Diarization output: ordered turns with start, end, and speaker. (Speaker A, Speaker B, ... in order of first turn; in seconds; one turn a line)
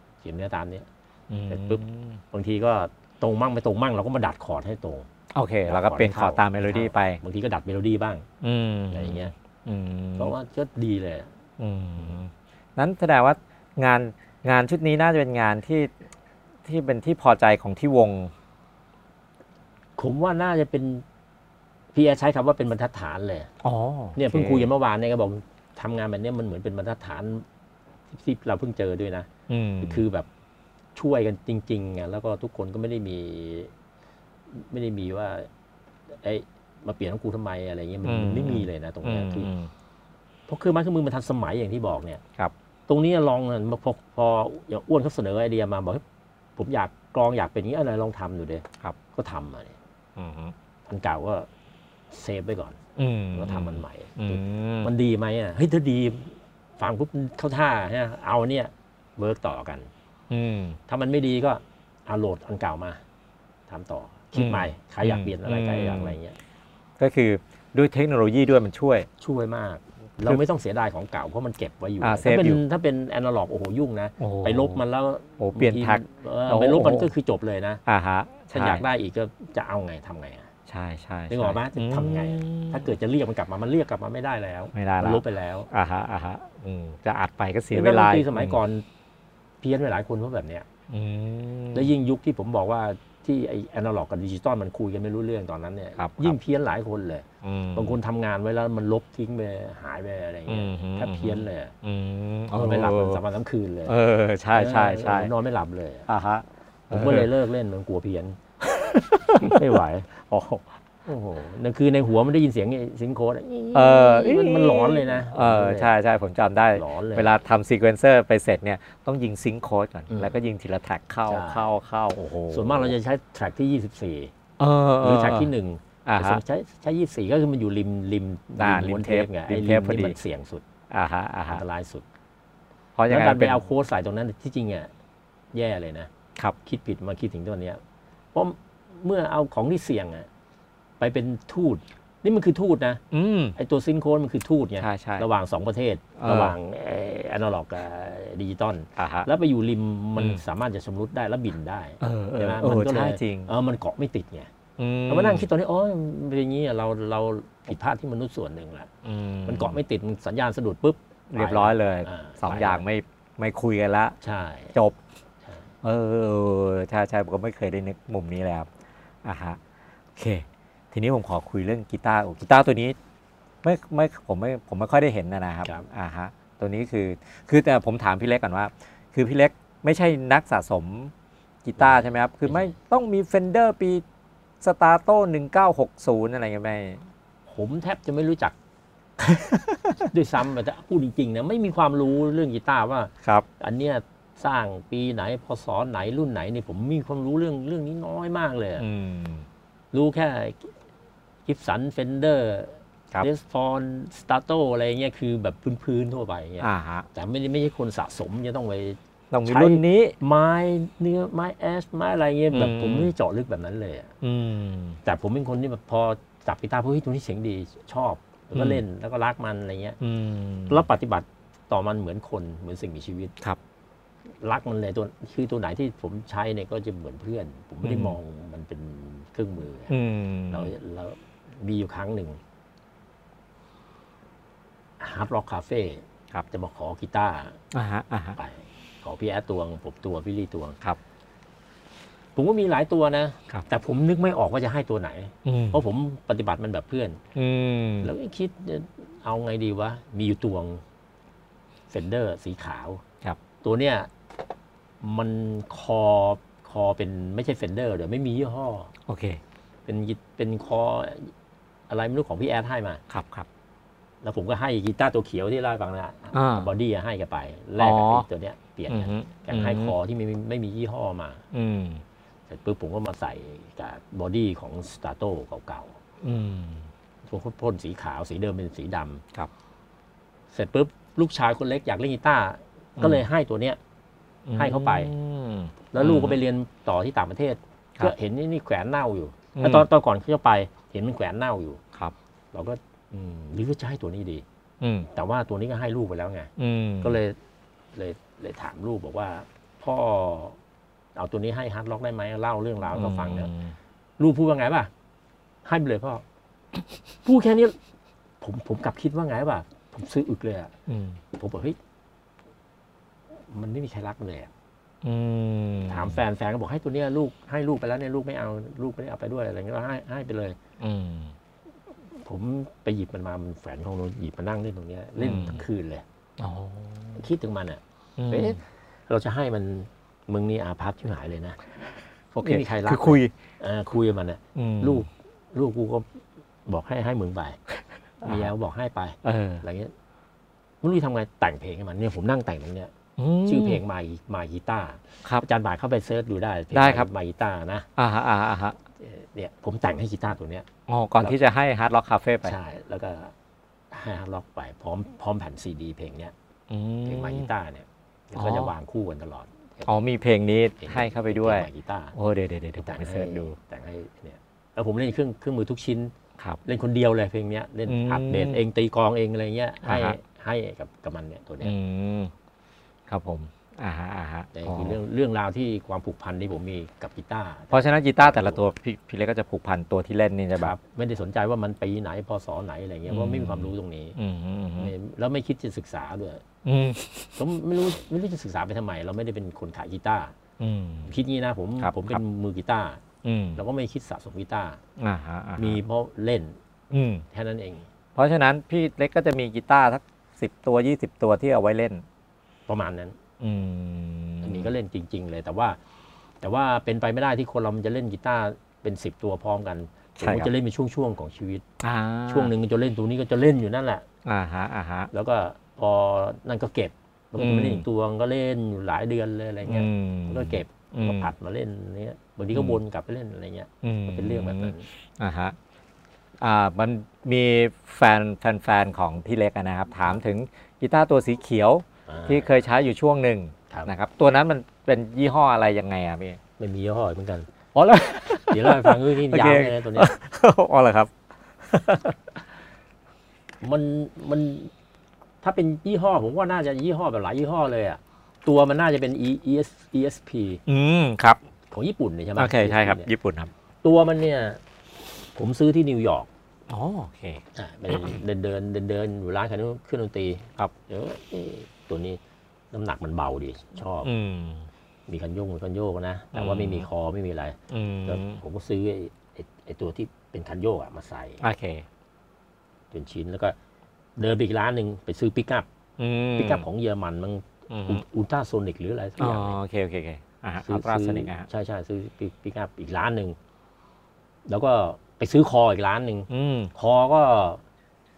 Speaker A: 0.2-0.9
Speaker B: 1.3-2.2
Speaker A: 1.5-5.1
Speaker B: 5.3-7.2
Speaker A: 5.6-8.2
Speaker B: 8.4-10.3
Speaker A: 8.9-9.3
Speaker A: 10.2-11.3
Speaker B: 11.6-15.9
Speaker B: 16.6-18.3
Speaker A: 20.0-21.0
Speaker A: 21.9-23.5
Speaker B: 23.6-24.7
Speaker A: 24.1-27.4
Speaker A: 28.1-29.3
Speaker B: 29.5-30.0
Speaker A: 29.8-30.3
Speaker A: 30.9-33.7
Speaker A: 34.5-35.5
Speaker A: 36.1-39.5
Speaker B: 38.0-39.7
Speaker A: 40.5-42.2
Speaker A: 42.9-46.0
Speaker A: 46.6-49.8
Speaker B: 50.1-50.5
Speaker A: 50.9-51.5
Speaker A: 52.1-52.8
Speaker B: 53.0-54.9
Speaker A: 53.3-59.9
Speaker B: 60.3-60.8
Speaker A: 60.9-63.0
Speaker A: 63.7-66.4
Speaker B: 64.3-66.2
Speaker B: 67.0-69.1
Speaker A: 69.2-77.8
Speaker B: 72.0-72.6
Speaker B: 74.2-74.8
Speaker B: 75.4-77.1
Speaker B: 77.8-78.8
Speaker A: 78.5-80.5
Speaker B: 80.7-82.9
Speaker A: 81.3-85.7
Speaker B: 84.7-88.6
Speaker A: 87.7-88.8
Speaker A: 89.6-90.7
Speaker B: 90.9-91.9
Speaker A: 91.7-101.7
Speaker B: 96.0-96.4
Speaker B: 97.4-98.0
Speaker B: 100.5-103.2
Speaker A: 102.5-103.9
Speaker B: 103.9-105.3
Speaker A: 104.5-106.1
Speaker B: 106.1-107.3
Speaker A: 106.9-108.4
Speaker B: 108.6-109.6
Speaker A: 109.3-110.2
Speaker B: 110.3-110.6
Speaker A: 111.0-115.9
Speaker B: 113.7-123.0
Speaker A: 116.7-117.4
Speaker A: 121.2-124.3
Speaker B: 124.6-125.5
Speaker A: 125.0-130.6
Speaker B: 126.0-126.4
Speaker B: 128.6-130.2
Speaker B: 130.9-131.6
Speaker A: 131.5-132.0
Speaker B: 132.9-133.7
Speaker A: 133.1-134.9
Speaker A: 135.5-136.1
Speaker A: 136.6-137.8
Speaker A: 138.3-140.3
Speaker A: 141.0-143.0
Speaker B: 143.1-143.6
Speaker A: 143.6-154.5
Speaker B: 144.8-145.3
Speaker B: 146.2-146.6
Speaker B: 148.9-149.3
Speaker B: 150.2-150.4
Speaker B: 152.0-153.5
Speaker B: 154.8-155.5
Speaker A: 155.1-158.9
Speaker B: 159.0-159.8
Speaker A: 159.4-162.8
Speaker B: 161.3-164.2
Speaker A: 164.2-164.7
Speaker B: 165.8-168.7
Speaker B: 169.2-169.6
Speaker B: 170.2-172.9
Speaker B: 173.6-181.1
Speaker B: 181.6-184.0
Speaker A: 181.8-182.7
Speaker B: 184.6-187.0
Speaker A: 187.5-188.5
Speaker B: 189.2-190.1
Speaker A: 190.1-198.8
Speaker B: 198.8-199.5
Speaker A: 199.9-200.7
Speaker A: 201.4-214.1
Speaker B: 206.6-207.1
Speaker B: 209.3-210.2
Speaker B: 212.5-213.1
Speaker B: 214.2-215.0
Speaker A: 215.0-220.0
Speaker B: 218.5-218.8
Speaker B: 220.0-220.8
Speaker A: 220.7-223.3
Speaker A: 224.4-229.9
Speaker B: 227.8-228.2
Speaker B: 229.9-230.7
Speaker A: 230.5-232.4
Speaker A: 235.0-237.6
Speaker B: 237.7-238.4
Speaker A: 238.4-240.8
Speaker A: 242.3-247.2
Speaker B: 245.4-245.8
Speaker B: 247.3-248.1
Speaker A: 248.0-250.8
Speaker A: 251.9-253.0
Speaker A: 253.6-254.1
Speaker A: 255.0-258.9
Speaker B: 259.1-259.4
Speaker A: 259.9-261.3
Speaker A: 261.9-263.0
Speaker B: 263.1-263.5
Speaker A: 264.2-271.4
Speaker B: 266.3-266.7
Speaker B: 267.8-268.3
Speaker B: 268.9-269.9
Speaker B: 271.5-272.0
Speaker A: 272.5-275.9
Speaker B: 276.2-276.9
Speaker A: 277.2-279.2
Speaker A: 280.5-283.8
Speaker B: 283.0-283.2
Speaker B: 284.5-286.4
Speaker A: 284.5-285.1
Speaker A: 285.9-291.8
Speaker B: 289.6-289.9
Speaker A: 292.5-294.4
Speaker B: 294.8-295.1
Speaker A: 295.1-297.4
Speaker B: 296.6-297.2
Speaker A: 297.9-300.6
Speaker A: 301.1-303.5
Speaker B: 302.9-303.8
Speaker A: 304.2-304.9
Speaker A: 305.6-306.2
Speaker A: 307.2-307.8
Speaker A: 308.4-310.7
Speaker B: 310.9-311.2
Speaker A: 311.3-311.8
Speaker A: 313.5-314.5
Speaker B: 315.0-316.2
Speaker A: 315.9-320.6
Speaker B: 320.8-321.3
Speaker A: 322.2-326.0
Speaker B: 325.2-325.6
Speaker B: 326.4-327.2
Speaker A: 327.1-331.6
Speaker B: 328.2-328.6
Speaker A: 332.3-336.1
Speaker B: 332.4-333.3
Speaker B: 334.5-335.1
Speaker A: 336.7-337.6
Speaker B: 338.2-338.5
Speaker A: 338.2-339.9
Speaker B: 339.2-339.6
Speaker A: 340.8-342.9
Speaker B: 343.2-343.8
Speaker A: 343.4-347.9
Speaker B: 346.7-347.1
Speaker B: 348.0-348.8
Speaker A: 349.0-350.7
Speaker B: 350.9-352.6
Speaker A: 352.4-353.3
Speaker A: 353.9-356.3
Speaker B: 356.7-357.5
Speaker A: 357.0-359.9
Speaker B: 358.3-358.7
Speaker B: 359.9-363.6
Speaker A: 360.8-362.1
Speaker A: 362.8-366.1
Speaker A: 366.6-371.7
Speaker B: 367.9-368.6
Speaker B: 369.8-370.2
Speaker B: 371.6-372.3
Speaker B: 373.1-375.0
Speaker A: 374.5-378.7
Speaker B: 377.7-380.8
Speaker A: 380.6-384.2
Speaker B: 383.1-384.9
Speaker A: 384.8-386.4
Speaker B: 386.6-387.4
Speaker A: 387.4-390.3
Speaker B: 390.6-391.1
Speaker A: 391.0-393.0
Speaker B: 391.8-392.2
Speaker B: 393.2-393.6
Speaker A: 393.6-394.8
Speaker B: 395.0-395.8
Speaker A: 395.6-396.6
Speaker B: 396.9-397.2
Speaker A: 397.3-397.9
Speaker B: 398.1-402.0
Speaker A: 402.7-403.1
Speaker B: 403.4-404.7
Speaker A: 404.4-405.8
Speaker A: 406.4-411.6
Speaker B: 410.2-410.5
Speaker B: 411.8-412.5
Speaker A: 412.3-414.0
Speaker B: 414.2-415.1
Speaker A: 415.1-424.9
Speaker B: 417.4-417.8
Speaker B: 419.6-421.3
Speaker B: 422.5-422.8
Speaker B: 423.8-425.6
Speaker B: 426.4-436.4
Speaker A: 432.1-432.5
Speaker A: 436.6-437.5
Speaker B: 437.7-441.1
Speaker A: 438.5-440.1
Speaker B: 441.6-442.4
Speaker A: 443.6-444.7
Speaker A: 445.4-450.6
Speaker B: 450.7-451.4
Speaker A: 451.7-453.1
Speaker B: 452.4-453.5
Speaker A: 453.8-454.6
Speaker A: 455.4-456.3
Speaker B: 456.7-458.2
Speaker A: 457.5-462.2
Speaker A: 462.7-464.1
Speaker B: 464.0-464.7
Speaker A: 465.1-471.4
Speaker B: 466.3-466.9
Speaker B: 467.7-468.4
Speaker B: 471.4-471.9
Speaker A: 472.9-473.6
Speaker A: 474.2-475.7
Speaker B: 476.0-476.7
Speaker A: 476.4-479.6
Speaker B: 477.7-478.0
Speaker B: 479.2-481.5
Speaker A: 480.6-483.4
Speaker A: 484.5-487.6
Speaker B: 486.3-486.7